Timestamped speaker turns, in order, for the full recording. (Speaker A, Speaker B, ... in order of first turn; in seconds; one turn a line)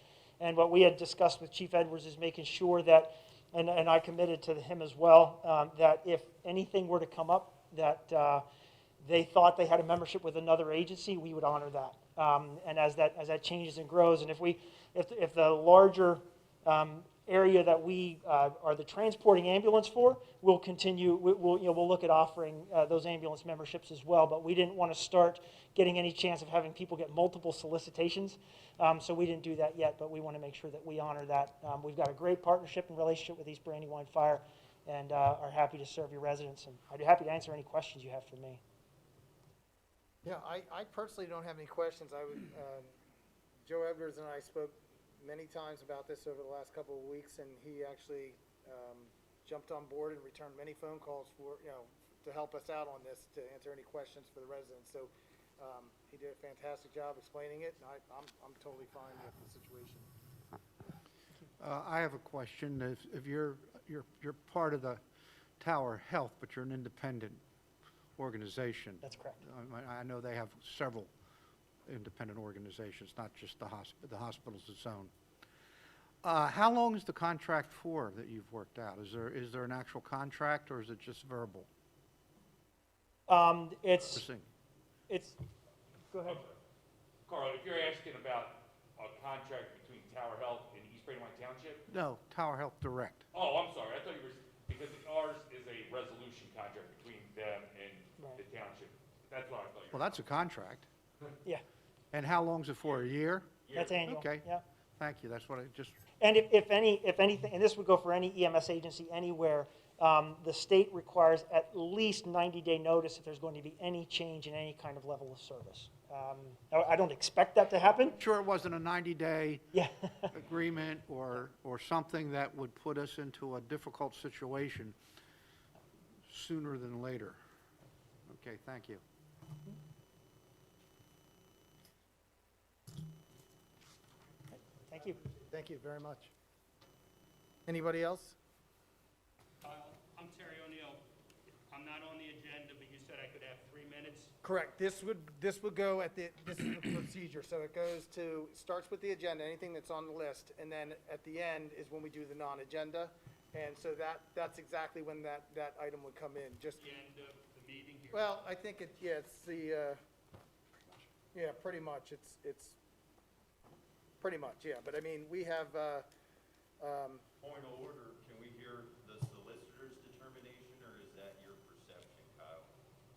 Speaker A: 0.4-8.4
Speaker A: 9.0-38.6
Speaker B: 40.2-42.9
Speaker B: 43.6-60.1
Speaker C: 61.6-65.0
Speaker C: 65.6-67.4
Speaker C: 68.2-71.1
Speaker A: 69.0-69.4
Speaker C: 71.8-75.1
Speaker C: 76.2-81.7
Speaker A: 83.3-84.2
Speaker C: 84.1-84.5
Speaker A: 85.1-85.4
Speaker A: 86.1-86.4
Speaker D: 86.2-86.6
Speaker D: 87.2-91.8
Speaker C: 91.9-93.2
Speaker D: 93.3-100.2
Speaker C: 99.9-100.9
Speaker C: 102.1-103.5
Speaker D: 103.6-104.0
Speaker A: 103.7-104.6
Speaker C: 104.0-104.5
Speaker C: 105.0-106.0
Speaker A: 106.2-118.2
Speaker C: 118.2-119.6
Speaker A: 119.7-120.3
Speaker C: 120.3-125.0
Speaker C: 126.3-127.4
Speaker C: 128.3-129.0
Speaker A: 134.9-135.2
Speaker B: 135.5-136.3
Speaker B: 137.7-138.3
Speaker E: 139.6-141.0
Speaker E: 141.7-144.3
Speaker B: 144.4-156.8
Speaker E: 156.8-158.4
Speaker B: 158.1-160.0
Speaker B: 161.3-162.8
Speaker B: 164.2-166.1
Speaker B: 166.8-167.2
Speaker F: 167.4-172.7